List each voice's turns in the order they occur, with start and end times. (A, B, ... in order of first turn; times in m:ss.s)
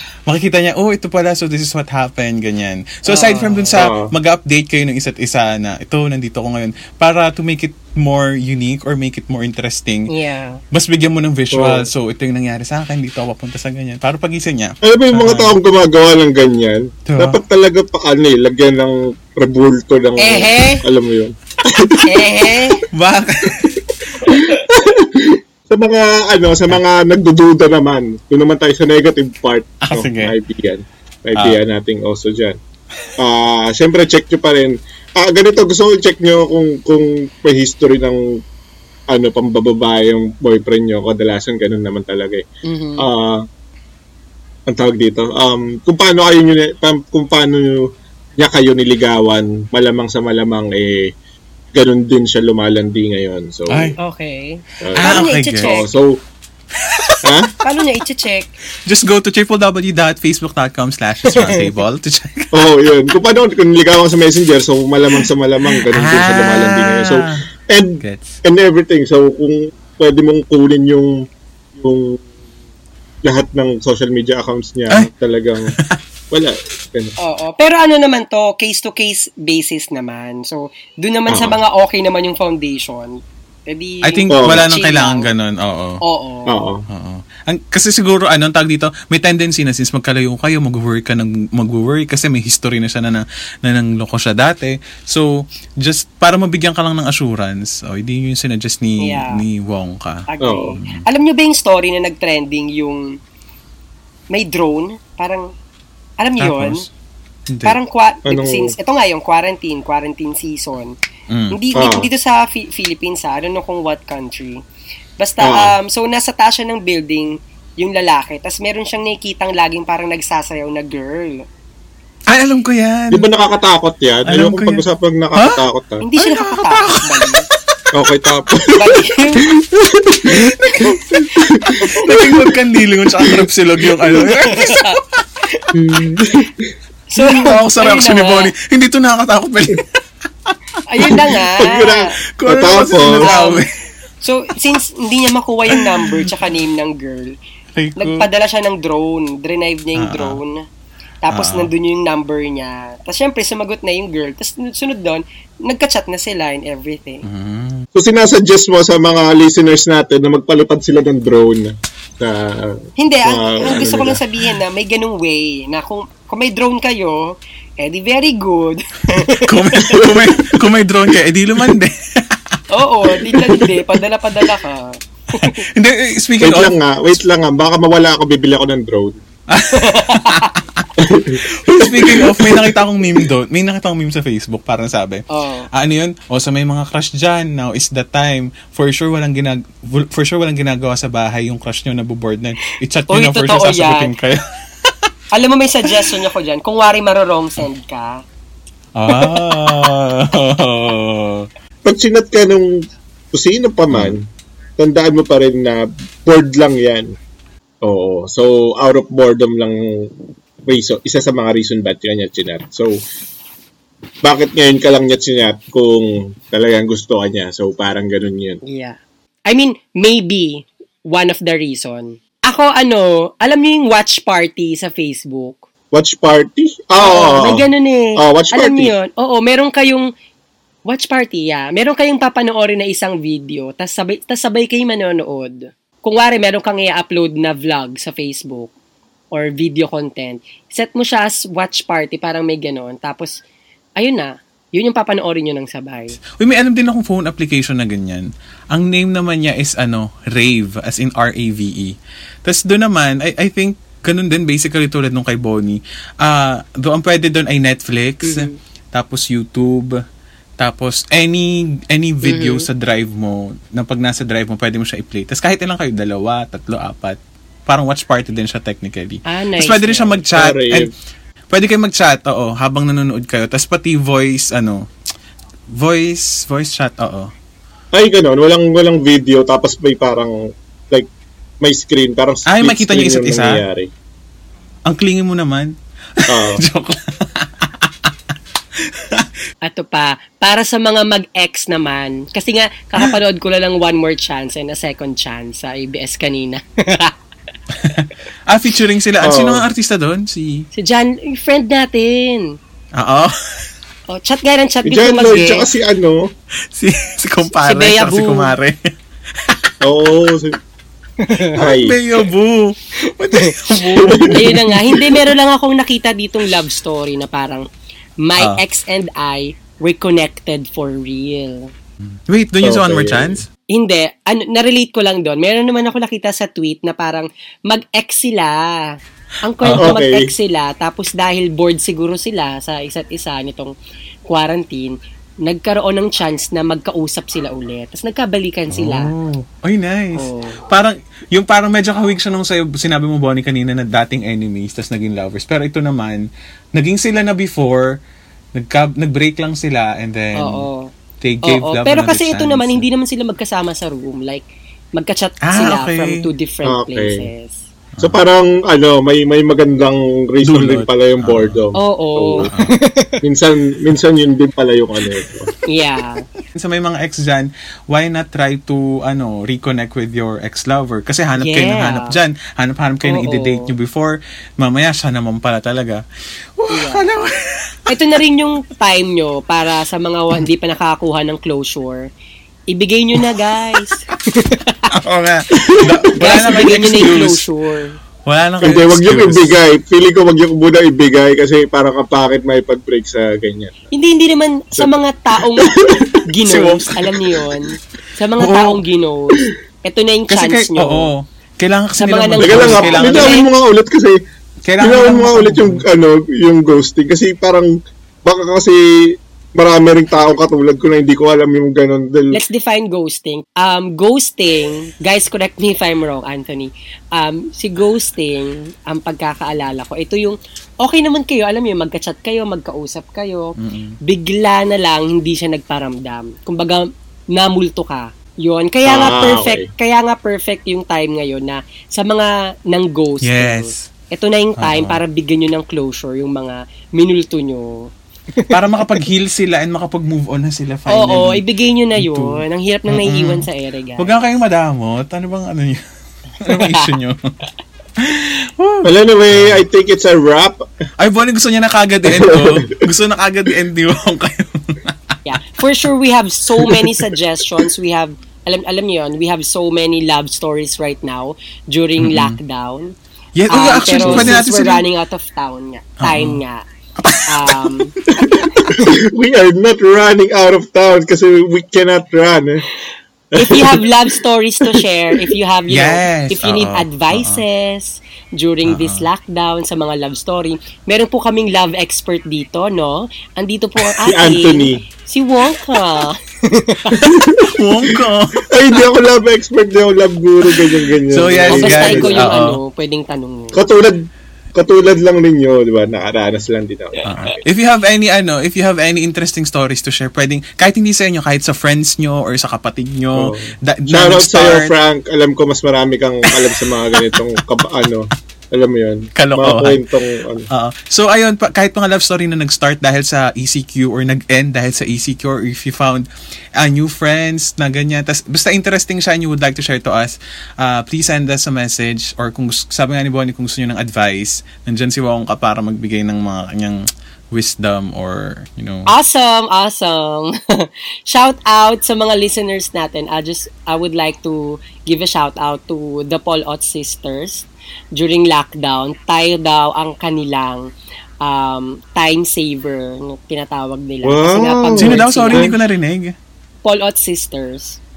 0:00.3-0:10.1 A
0:03.1-0:03.8 B
0:03.7-0:04.1 C
0:10.1-0:10.6 B
0:10.7-0:15.6 A
0:11.5-0:11.9 C
0:14.8-0:22.1 C
0:17.1-0:17.4 A
0:20.2-0:20.8 B
0:22.0-0:22.8 B
0:22.9-0:24.3 A
0:24.2-0:32.6 C
0:29.8-0:30.3 A
0:33.2-0:38.2 C
0:39.1-0:42.4 C
0:42.6-0:43.0 B
0:43.0-0:43.4 C
0:44.7-0:51.1 C
0:51.7-0:54.0 C
0:53.7-0:54.0 A
0:54.0-0:55.9 B
0:54.8-0:56.2 C
0:54.9-0:55.8 A
0:56.8-0:57.4 A
0:57.2-0:57.5 C
0:57.6-0:58.5 B
0:58.8-1:02.5 A
1:01.3-1:01.7 B
1:02.5-1:11.2 C
1:05.7-1:07.4 A
1:08.0-1:08.4 A
1:11.7-1:12.2 C
1:13.2-1:15.7 C
1:15.7-1:16.0 A
1:16.3-1:17.1 C
1:17.2-1:25.3 B
1:21.3-1:21.6 C
1:24.0-1:26.0 A
1:24.3-1:24.7 C
1:26.0-1:26.5 B
1:26.5-1:26.8 C
1:26.9-1:40.2 A
1:39.0-1:39.4 B
1:40.3-1:43.0 B
1:40.4-1:40.8 C
1:40.8-1:41.0 A
1:44.3-1:45.5 B
1:46.2-1:46.8 B
1:46.4-1:46.9 A
1:47.5-1:47.8 A
1:47.6-1:51.0 B
1:48.2-1:48.7 C
1:51.3-1:51.6 A
1:51.5-1:54.6 B
1:51.7-1:52.1 C
1:55.2-2:01.4 B
1:55.4-1:55.8 C
2:02.3-2:03.3 A
2:03.1-2:06.0 C
2:04.2-2:05.6 A
2:06.0-2:07.4 B
2:06.2-2:07.5 A
2:07.9-2:12.5 C
2:08.7-2:09.5 B
2:10.3-2:15.2 A
2:10.7-2:12.2 B
2:13.2-2:14.2 C
2:14.2-2:15.7 B
2:15.7-2:16.7 C
2:17.1-2:18.5 B
2:17.2-2:19.9 A
2:20.4-2:21.4 A
2:20.9-2:22.2 B
2:21.6-2:23.3 C
2:22.4-2:23.7 A
2:22.9-2:23.6 B
2:24.2-2:27.4 B
2:25.7-2:26.3 A
2:27.7-2:28.3 A
2:28.0-2:30.6 B
2:30.0-2:30.4 A
2:31.2-2:37.2 B
2:31.3-2:31.7 A
2:37.2-2:37.8 A
2:37.9-2:44.2 C
2:43.0-2:50.0 B
2:49.2-2:52.6 A
2:49.9-2:50.4 C
2:52.7-2:55.6 B
2:53.3-2:53.6 A
2:55.3-2:56.8 A
2:56.4-2:59.2 C
2:59.5-3:15.1 A
2:59.7-3:00.5 B
3:01.0-3:03.2 C
3:05.3-3:05.7 B
3:13.1-3:14.1 B
3:15.3-3:18.2 B
3:19.0-3:21.5 A
3:19.2-3:19.6 B
3:21.8-3:22.8 C
3:23.3-3:24.3 C
3:23.9-3:24.2 A
3:24.8-3:27.1 C
3:27.8-3:30.1 C
3:30.6-3:33.0 C
3:34.2-3:38.6 C
3:38.6-3:45.6 B
3:45.9-3:48.9 C
3:47.0-3:50.1 B
3:50.9-3:58.7 B
3:59.3-4:03.4 B
4:04.0-4:06.2 B
4:06.3-4:19.9 A
4:18.2-4:18.6 B
4:20.6-4:30.9 A
4:22.2-4:22.7 B
4:29.2-4:30.2 B
4:30.3-4:30.9 C
4:31.5-4:34.8 A
4:35.7-4:37.3 A
4:37.9-4:40.4 C
4:41.6-4:43.9 C
4:42.5-4:43.6 A
4:44.9-4:48.1 A
4:46.3-4:46.6 C
4:48.8-4:49.3 A
4:49.6-4:57.1 B
4:57.8-5:00.7 A
4:59.2-4:59.6 C
5:00.7-5:02.6 B
5:03.0-5:03.4 A
5:04.1-5:05.7 B
5:04.8-5:06.2 C
5:06.7-5:08.8 A
5:07.5-5:08.5 B
5:09.8-5:10.6 C
5:11.2-5:11.5 B
5:11.5-5:15.0 A
5:11.6-5:12.0 C
5:13.0-5:17.6 B
5:14.0-5:15.0 C
5:18.2-5:21.7 B
5:22.3-5:23.4 A
5:22.6-5:23.4 C
5:23.7-5:33.7 B
5:29.6-5:30.0 A
5:29.8-5:30.3 C
5:34.3-5:39.1 B
5:38.7-5:48.0 A
5:40.1-5:40.6 B
5:48.5-5:50.7 A
5:50.4-5:50.9 B
5:51.2-5:52.8 A
5:51.4-5:57.6 B
5:55.4-5:56.2 A
5:56.6-5:57.3 C
5:58.0-5:58.2 A
5:58.0-6:02.5 C
6:00.4-6:01.6 A
6:01.7-6:03.2 B
6:02.4-6:02.8 A
6:03.2-6:05.5 C
6:05.6-6:06.2 B
6:06.5-6:16.0 A
6:11.4-6:12.2 B
6:13.0-6:13.7 B
6:16.6-6:17.9 A
6:16.7-6:17.1 B
6:17.9-6:22.1 B
6:22.7-6:24.8 B
6:24.9-6:27.5 A
6:25.7-6:26.0 C
6:26.2-6:28.0 B
6:28.2-6:29.6 A
6:28.6-6:33.7 C
6:33.9-6:41.1 B
6:35.5-6:36.2 C
6:36.4-6:37.5 A
6:38.4-6:38.8 A
6:40.3-6:43.4 A
6:42.0-6:43.5 B
6:42.4-6:44.2 C
6:44.6-6:45.8 A
6:44.8-6:47.7 C
6:48.2-6:48.8 C
6:49.6-6:52.4 C
6:52.3-7:03.5 B
7:03.6-7:04.0 A
7:04.0-7:06.8 B
7:07.3-7:19.0 B
7:08.8-7:09.6 C
7:13.2-7:13.9 A
7:14.6-7:15.0 A
7:18.5-7:21.4 A
7:20.9-7:24.2 B
7:21.9-7:23.5 A
7:24.0-7:25.8 A
7:26.4-7:27.3 A
7:26.4-7:26.9 B
7:28.0-7:29.6 A
7:28.8-7:30.6 C
7:31.0-7:35.2 A
7:32.0-7:32.8 C
7:35.2-7:42.9 B
7:42.0-7:42.4 A
7:43.4-7:44.8 A
7:43.5-7:46.6 B
7:44.0-7:44.4 C
7:46.0-7:46.4 A
7:47.0-7:48.8 A
7:47.3-7:47.9 B
7:48.8-7:52.6 C
7:53.3-7:53.9 C
7:53.3-8:07.1 B
7:54.7-7:55.3 C
7:55.7-7:57.4 A
7:58.6-7:59.1 A
8:04.0-8:04.8 C
8:06.9-8:07.6 C
8:07.4-8:08.4 A
8:08.5-8:12.4 C
8:11.1-8:12.6 A
8:11.5-8:13.6 B
8:13.5-8:14.0 C
8:14.5-8:17.4 C
8:17.0-8:24.7 A
8:23.1-8:30.5 C
8:29.2-8:29.8 A
8:30.5-8:36.0 A
8:36.6-8:46.8 A
8:47.3-8:48.9 A
8:48.9-9:00.7 B
9:01.2-9:05.5 B
9:04.0-9:05.5 C
9:04.8-9:06.1 A
9:06.6-9:07.8 B